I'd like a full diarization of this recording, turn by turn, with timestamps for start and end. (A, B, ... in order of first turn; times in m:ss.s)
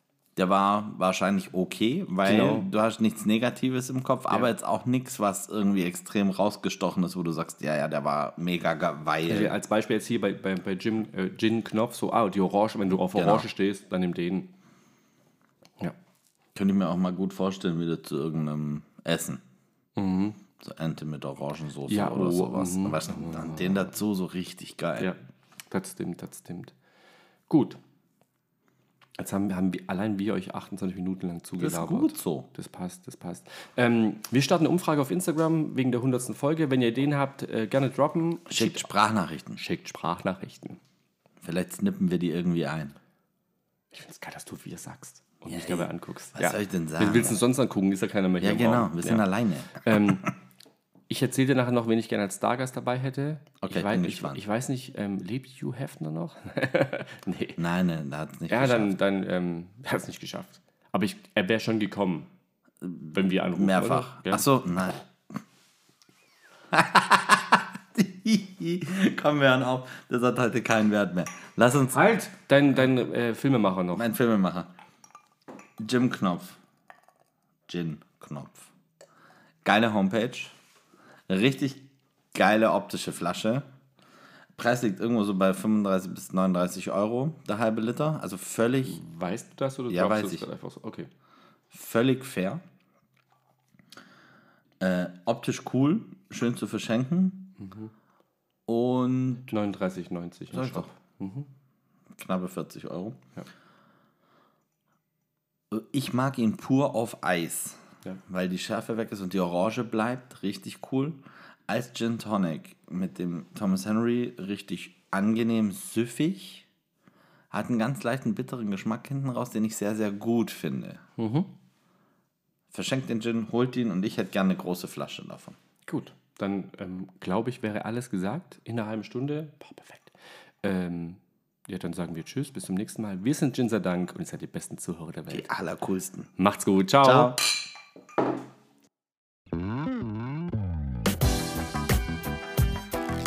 0:00.4-0:09.6 A
0:02.2-0:02.7 B
0:09.3-0:14.5 B
0:13.1-0:13.5 A
0:16.6-0:19.4 A
0:20.0-0:20.4 B
0:20.6-0:25.1 A
0:21.9-0:23.9 B
0:25.7-0:26.7 B
0:27.5-0:27.8 B
0:29.2-0:38.9 B
0:31.6-0:32.5 A
0:38.5-0:39.6 A
0:39.6-0:40.8 B
0:41.4-0:43.0 A
0:43.9-0:49.3 B
0:45.5-0:47.4 A
0:48.4-0:50.3 A
0:49.8-0:50.4 B
0:51.1-0:57.6 B
0:53.6-0:54.4 A
0:57.6-0:58.9 A
0:58.5-1:02.3 B
1:02.8-1:05.4 A
1:03.1-1:04.5 B
1:06.7-1:12.1 A
1:11.9-1:14.1 B
1:13.9-1:14.7 A
1:15.8-1:16.6 A
1:17.7-1:18.7 A
1:19.6-1:20.6 A
1:21.3-1:23.7 A
1:24.6-1:29.0 A
1:28.9-1:31.1 B
1:29.9-1:30.5 A
1:31.7-1:32.6 A
1:34.8-1:37.5 A
1:37.6-1:37.9 B
1:38.7-1:39.5 A
1:39.5-1:41.5 B
1:40.5-1:40.9 A
1:42.1-1:43.2 A
1:45.7-1:56.7 A
1:57.5-2:01.0 A
2:01.2-2:01.5 B
2:02.7-2:05.6 A
2:05.9-2:15.5 B
2:15.3-2:16.3 A
2:16.4-2:17.4 B
2:17.0-2:17.5 A